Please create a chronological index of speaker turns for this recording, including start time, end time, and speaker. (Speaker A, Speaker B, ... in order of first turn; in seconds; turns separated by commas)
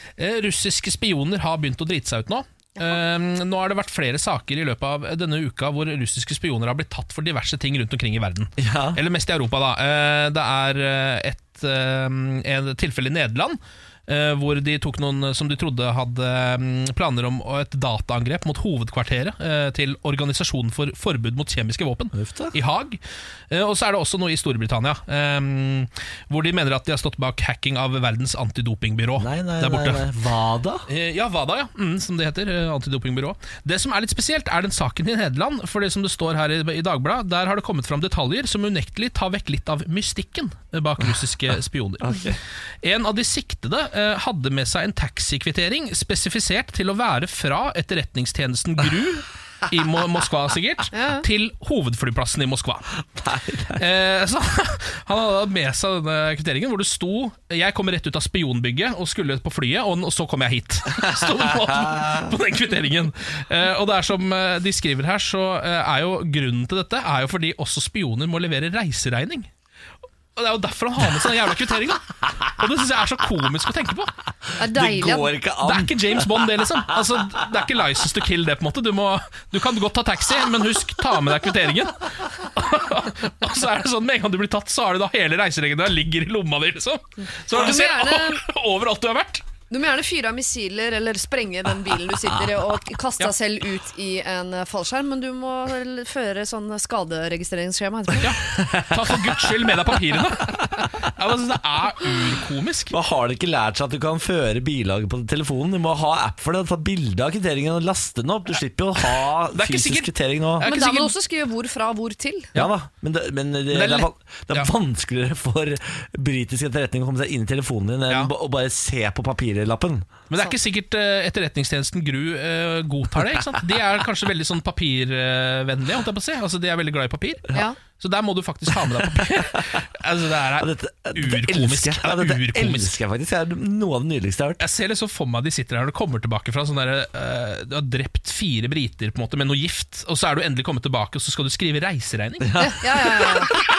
Speaker A: 0.2-30.1, Speaker B: 8.6-9.0, Speaker B: 22.1-22.6, Speaker B: 29.2-30.9, Speaker A: 30.9-42.3, Speaker B: 42.0-42.4, Speaker A: 42.8-52.9, Speaker C: 50.9-51.3, Speaker B: 53.2-53.8, Speaker A: 53.8-69.5, Speaker B: 61.9-62.2, Speaker A: 70.4-74.1, Speaker B: 74.6-77.4, Speaker C: 74.6-75.4, Speaker A: 75.6-89.4, Speaker C: 87.5-88.4, Speaker C: 89.7-98.4, Speaker A: 98.2-102.9, Speaker B: 98.4-99.4, Speaker B: 102.9-110.7, Speaker A: 109.1-111.1, Speaker C: 110.6-112.5, Speaker B: 112.5-120.1, Speaker A: 113.7-114.7, Speaker A: 120.3-127.4, Speaker A: 128.0-133.0, Speaker B: 130.6-134.6, Speaker A: 134.6-142.7, Speaker B: 142.4-143.3, Speaker C: 142.6-143.5